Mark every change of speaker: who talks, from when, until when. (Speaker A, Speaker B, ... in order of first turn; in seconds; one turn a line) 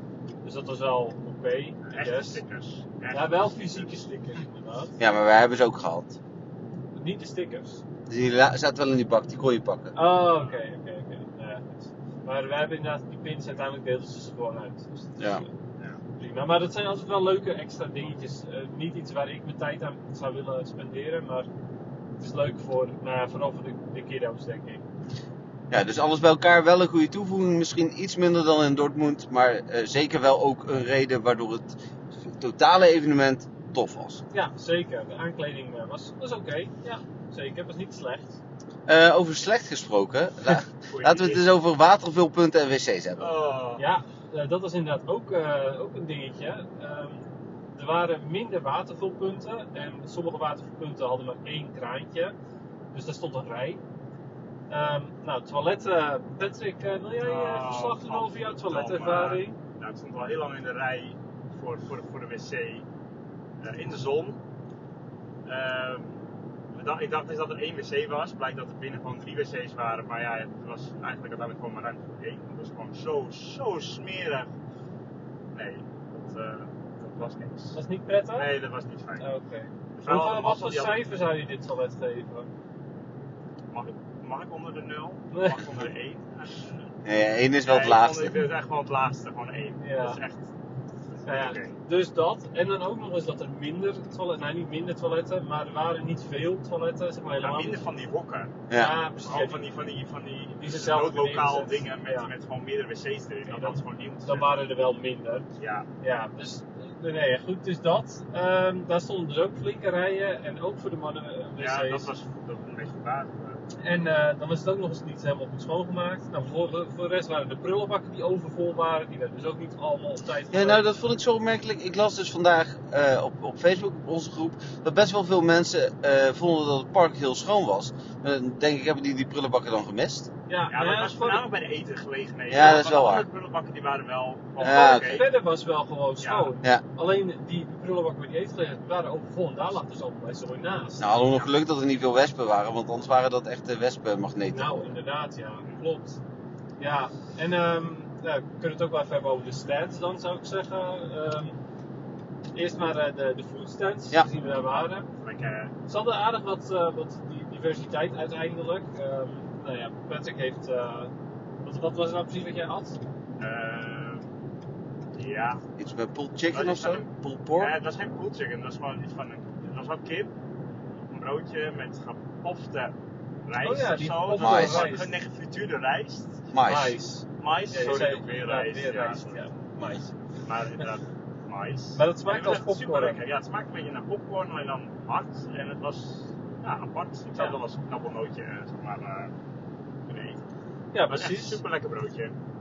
Speaker A: 0.4-2.4
Speaker B: 1.9-3.9
Speaker A: 3.1-5.0
Speaker C: 5.0-6.2
Speaker A: 7.0-7.8
Speaker C: 8.1-9.9
Speaker A: 9.9-15.5
Speaker A: 16.2-21.5
Speaker A: 22.2-24.8
Speaker C: 25.7-34.2
Speaker A: 34.3-38.4
Speaker C: 38.9-43.3
Speaker B: 40.9-41.4
Speaker B: 43.2-43.8
Speaker A: 43.8-52.3
Speaker A: 52.9-53.8
Speaker A: 54.7-59.6
Speaker B: 57.2-62.8
Speaker B: 63.6-64.4
Speaker B: 65.5-66.2
Speaker B: 66.7-74.5
Speaker B: 75.5-77.8
Speaker A: 77.7-78.5
Speaker B: 78.3-79.2
Speaker A: 79.2-82.5
Speaker B: 80.0-81.0
Speaker B: 83.7-86.8
Speaker A: 85.3-85.6
Speaker C: 87.0-88.4
Speaker B: 87.6-90.4
Speaker A: 89.8-90.2
Speaker B: 91.2-91.8
Speaker A: 91.2-97.9
Speaker B: 97.3-98.6
Speaker C: 98.7-98.9
Speaker A: 98.7-99.6
Speaker B: 99.2-104.6
Speaker A: 100.6-102.3
Speaker A: 103.5-105.4
Speaker B: 105.6-105.9
Speaker A: 106.0-112.1
Speaker B: 111.6-113.6
Speaker A: 113.8-120.8
Speaker C: 120.5-130.3
Speaker A: 130.5-131.4
Speaker B: 130.7-135.3
Speaker C: 132.5-133.3
Speaker C: 134.6-135.2
Speaker A: 134.6-141.4
Speaker B: 136.2-136.5
Speaker C: 141.0-144.9
Speaker A: 144.5-146.2
Speaker A: 146.8-151.6
Speaker A: 152.5-155.1
Speaker B: 155.2-155.7
Speaker A: 155.9-161.1
Speaker A: 161.6-163.0
Speaker B: 163.4-164.2
Speaker B: 165.2-165.6
Speaker C: 165.8-167.7
Speaker B: 166.5-170.3
Speaker B: 171.1-172.9
Speaker B: 173.5-176.4
Speaker A: 173.6-175.1
Speaker C: 174.4-174.9
Speaker C: 176.5-176.9
Speaker A: 176.6-180.1
Speaker B: 177.4-179.4
Speaker B: 180.4-189.3
Speaker A: 181.9-183.2
Speaker B: 190.1-190.4
Speaker A: 190.9-191.6
Speaker B: 191.1-192.3